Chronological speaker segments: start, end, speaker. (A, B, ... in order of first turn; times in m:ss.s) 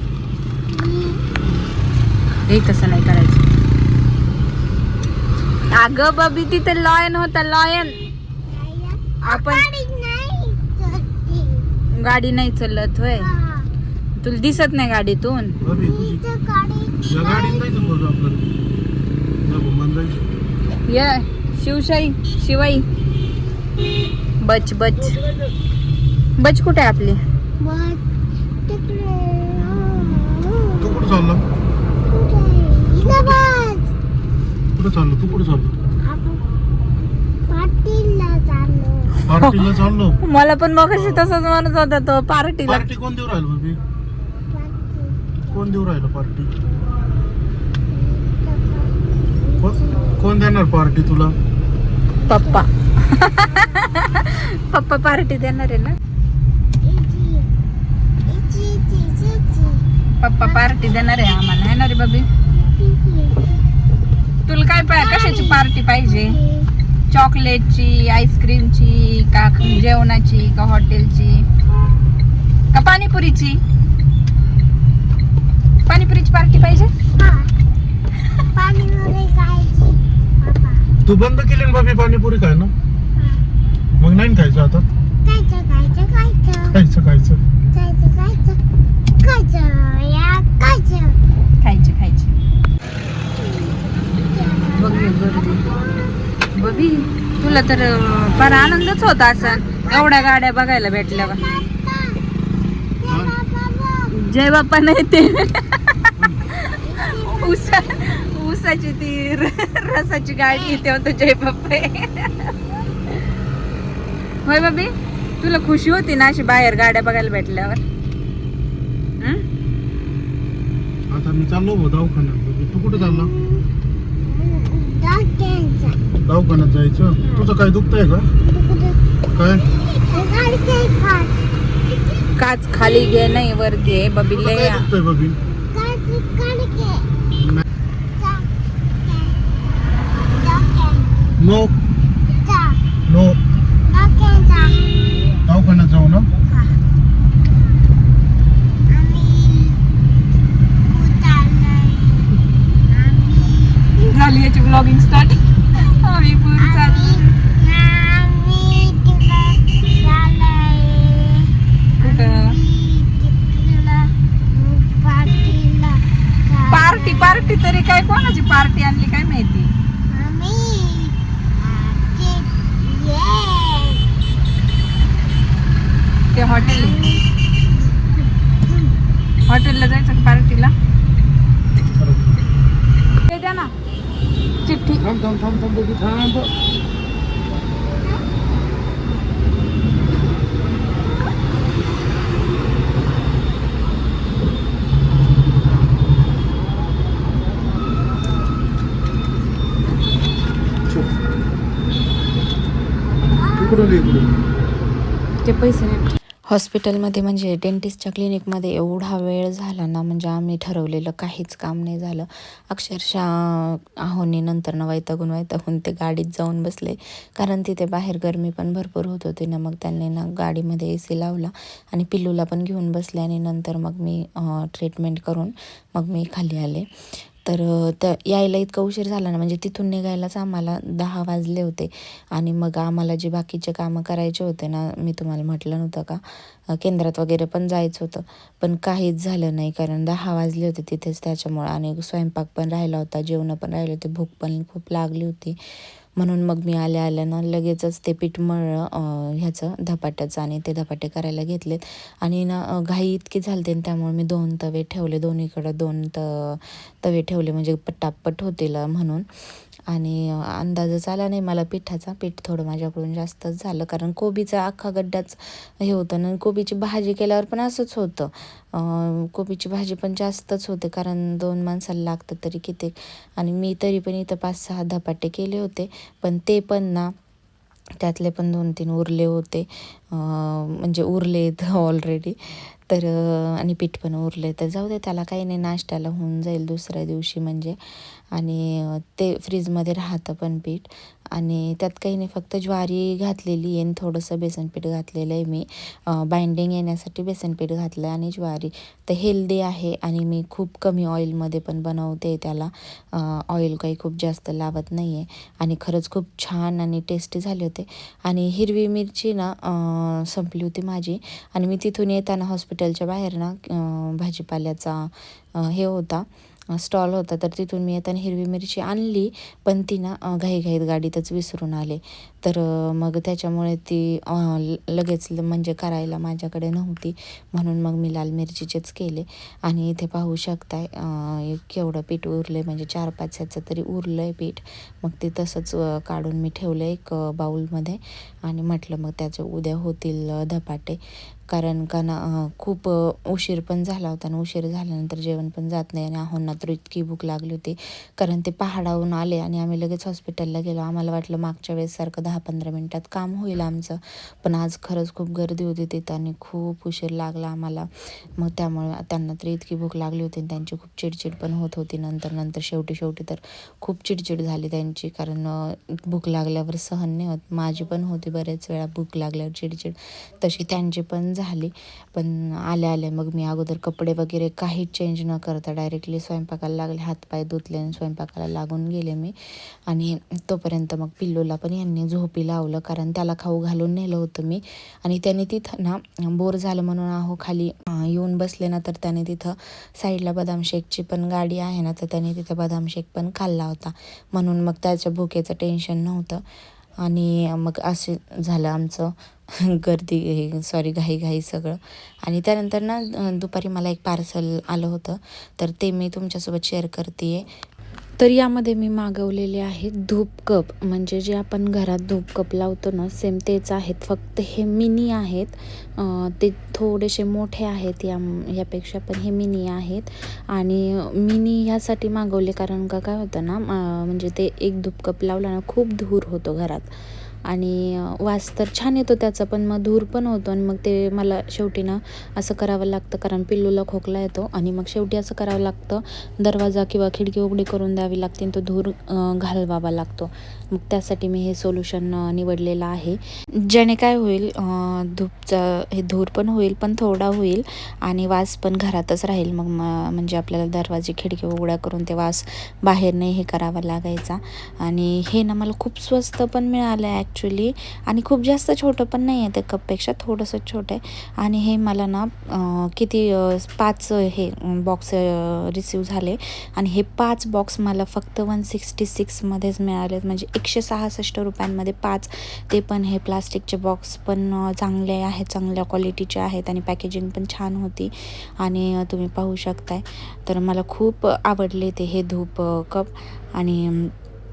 0:00.7-0:01.5 A
0:02.5-0:03.4 B
0:05.7-0:08.0 B
0:08.5-0:11.7 A
0:09.2-0:09.7 B
0:11.9-0:13.3 B
0:13.2-0:13.7 A
0:14.2-0:15.6 B
0:15.6-0:16.2 C
0:15.7-0:17.8 A
0:17.1-0:18.4 C
0:19.4-0:20.2 C
0:20.8-0:22.8 B
0:24.4-0:25.2 B
0:26.4-0:27.2 B
0:27.6-0:28.0 A
0:28.7-0:31.2 A
0:30.8-0:31.4 C
0:32.0-0:33.9 A
0:33.0-0:33.4 C
0:34.8-0:35.7 C
0:36.0-0:36.4 A
0:37.5-0:39.3 A
0:39.2-0:40.2 C
0:39.3-0:42.9 B
0:40.9-0:41.2 C
0:42.7-0:43.8 C
0:44.5-0:45.4 A
0:45.5-0:46.5 C
0:47.9-0:50.2 A
0:49.6-0:51.3 C
0:52.2-0:52.7 A
0:52.2-0:56.0 B
0:53.4-0:53.8 A
0:56.8-0:57.5 A
0:58.3-0:59.8 A
1:00.2-1:02.3 B
1:00.4-1:00.9 A
1:02.5-1:03.6 A
1:04.5-1:06.4 B
1:05.0-1:06.7 A
1:07.1-1:11.5 B
1:12.7-1:13.6 B
1:15.9-1:16.9 B
1:17.2-1:17.5 A
1:18.5-1:20.8 A
1:21.0-1:22.7 C
1:23.2-1:23.4 A
1:24.0-1:24.8 C
1:25.2-1:26.8 A
1:26.8-1:27.4 C
1:27.7-1:28.6 A
1:29.2-1:31.2 A
1:31.6-1:32.3 B
1:33.3-1:37.6 A
1:34.7-1:35.8 B
1:36.5-1:41.5 B
1:38.4-1:40.3 A
1:41.0-1:42.2 A
1:43.0-1:44.1 A
1:43.1-1:43.4 C
1:44.1-1:52.5 B
1:46.8-1:48.0 A
1:50.5-1:50.8 A
1:54.5-1:57.8 B
2:01.1-2:03.3 C
2:02.9-2:03.7 A
2:04.2-2:06.0 A
2:06.2-2:08.3 C
2:07.2-2:07.5 A
2:08.4-2:12.3 A
2:09.3-2:09.6 C
2:12.4-2:14.9 B
2:14.4-2:15.4 C
2:15.6-2:17.2 A
2:18.2-2:18.5 A
2:19.0-2:19.4 A
2:20.2-2:21.2 A
2:21.4-2:21.7 C
2:22.3-2:22.8 A
2:23.1-2:23.4 C
2:23.9-2:24.8 A
2:25.5-2:26.3 C
2:28.9-2:29.8 A
2:30.8-2:32.3 A
2:32.9-2:34.1 A
2:34.1-2:37.2 B
2:35.7-2:47.6 A
2:42.0-2:42.6 B
2:46.7-2:49.7 B
2:50.1-2:54.0 A
2:56.3-2:57.0 B
2:56.5-2:57.2 A
2:59.5-3:00.7 B
3:01.8-3:02.3 C
3:03.3-3:03.7 B
3:04.6-3:05.0 B
3:05.0-3:06.5 C
3:23.6-3:23.9 A
3:23.6-3:24.2 C
3:25.4-3:26.1 B
3:26.5-4:05.6 D
4:06.2-4:19.2 D
4:19.9-4:37.1 D
4:38.0-6:36.4 D
6:37.0-6:47.5 D
6:48.2-7:06.9 D
7:07.5-8:04.1 D